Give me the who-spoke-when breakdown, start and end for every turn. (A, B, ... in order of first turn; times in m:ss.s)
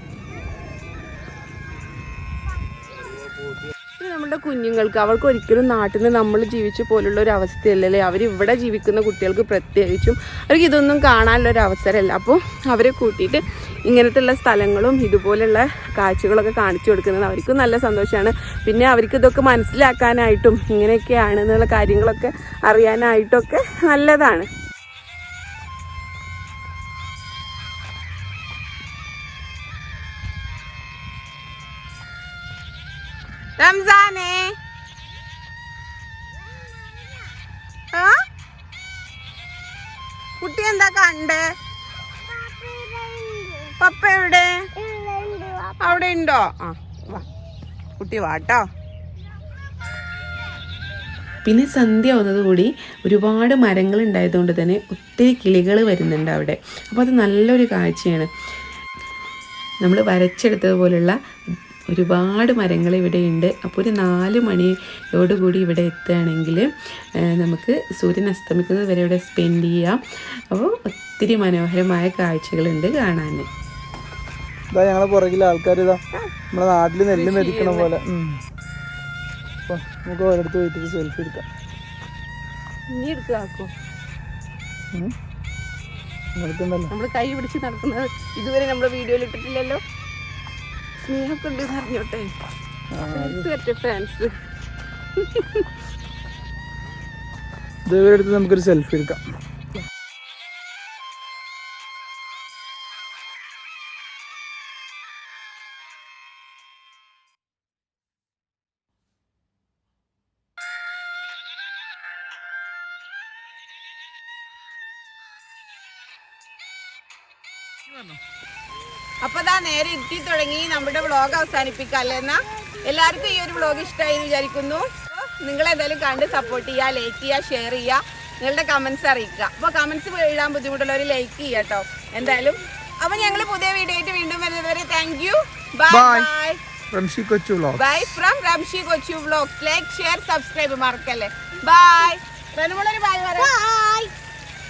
0:04.0-0:24.5 A
0:33.6-0:34.5 A
0:36.8-0:37.0 B
0:40.4-0:41.4 A
0:42.3-0:43.7 B
0:43.8-0:44.7 A
0:44.8-0:45.9 B
0:45.8-0:47.2 A
0:48.0-0:48.6 A
0:51.4-0:58.3 C
0:59.8-1:06.7 C
1:07.3-1:13.4 C
1:14.7-1:16.0 D
1:14.8-1:15.6 C
1:16.5-1:16.9 C
1:16.8-1:18.2 D
1:17.1-1:17.9 A
1:19.7-1:21.3 C
1:19.7-1:20.0 D
1:20.7-1:21.4 D
1:22.9-1:23.7 A
1:26.4-1:26.9 D
1:26.9-1:29.8 A
1:31.0-1:32.3 A
1:32.9-1:33.4 D
1:33.1-1:34.3 A
1:35.1-1:35.7 A
1:37.9-1:39.2 D
1:59.2-2:16.6 A
2:15.9-2:16.3 D
2:16.9-2:17.8 D
2:17.7-2:23.5 A
2:23.4-2:24.1 B